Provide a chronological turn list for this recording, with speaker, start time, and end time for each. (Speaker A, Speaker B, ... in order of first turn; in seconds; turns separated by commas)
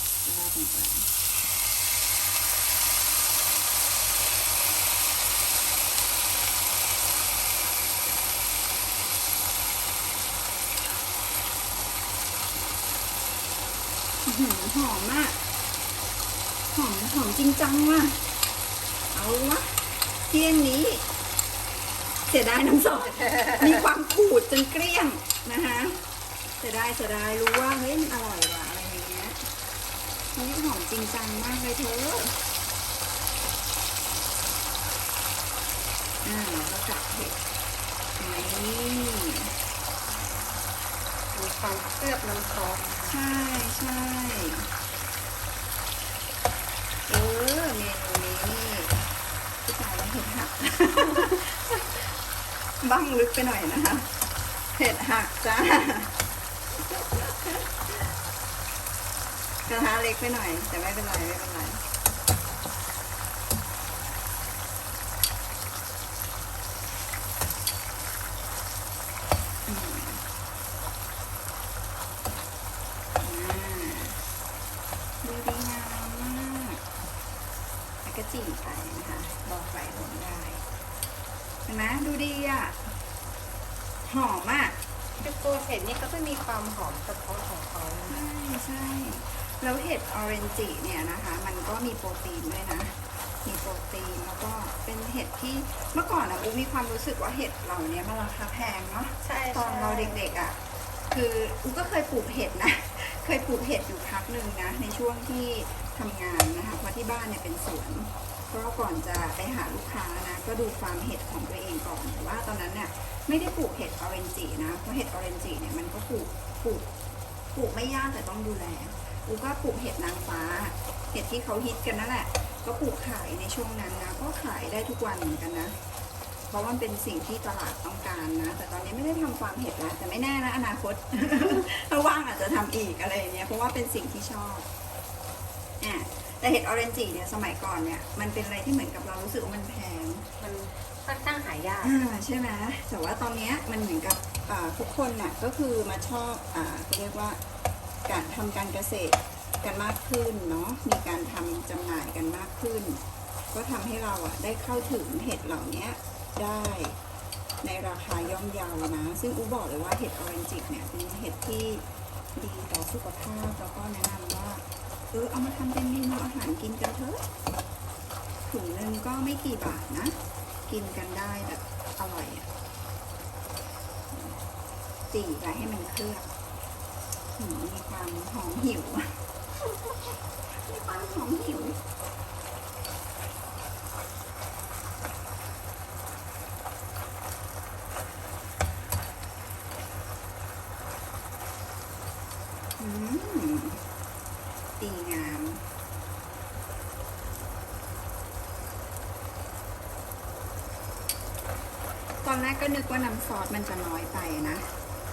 Speaker A: 0.2-1.1, Speaker A: 14.2-15.4, Speaker A: 16.7-18.2, Speaker A: 19.1-21.0, Speaker A: 22.3-26.0, Speaker B: 23.2-23.6, Speaker A: 26.6-29.4, Speaker A: 30.3-32.4, Speaker A: 36.2-37.4, Speaker A: 38.2-39.5, Speaker B: 41.3-43.2, Speaker A: 43.1-44.7, Speaker A: 47.1-49.0, Speaker A: 49.6-52.1, Speaker A: 52.8-54.1, Speaker A: 54.7-56.1, Speaker A: 56.9-57.8, Speaker A: 59.7-61.8, Speaker A: 69.7-70.2, Speaker A: 73.2-74.2, Speaker A: 75.2-76.8, Speaker A: 78.0-80.6, Speaker A: 81.7-82.8, Speaker A: 84.0-84.8, Speaker B: 85.2-88.2, Speaker A: 88.1-100.6, Speaker B: 99.2-100.2, Speaker A: 101.1-116.9, Speaker A: 117.5-125.7, Speaker A: 126.5-134.7, Speaker A: 135.8-140.3, Speaker B: 140.4-141.9, Speaker A: 141.8-147.4, Speaker A: 148.1-153.0, Speaker A: 153.5-157.0, Speaker A: 157.6-161.8, Speaker A: 162.3-167.2, Speaker A: 168.5-170.1, Speaker A: 170.7-172.5, Speaker A: 174.1-174.4, Speaker A: 175.1-176.3, Speaker A: 177.4-179.1, Speaker A: 180.5-181.8, Speaker A: 192.8-193.8, Speaker A: 194.8-195.6, Speaker A: 202.2-204.7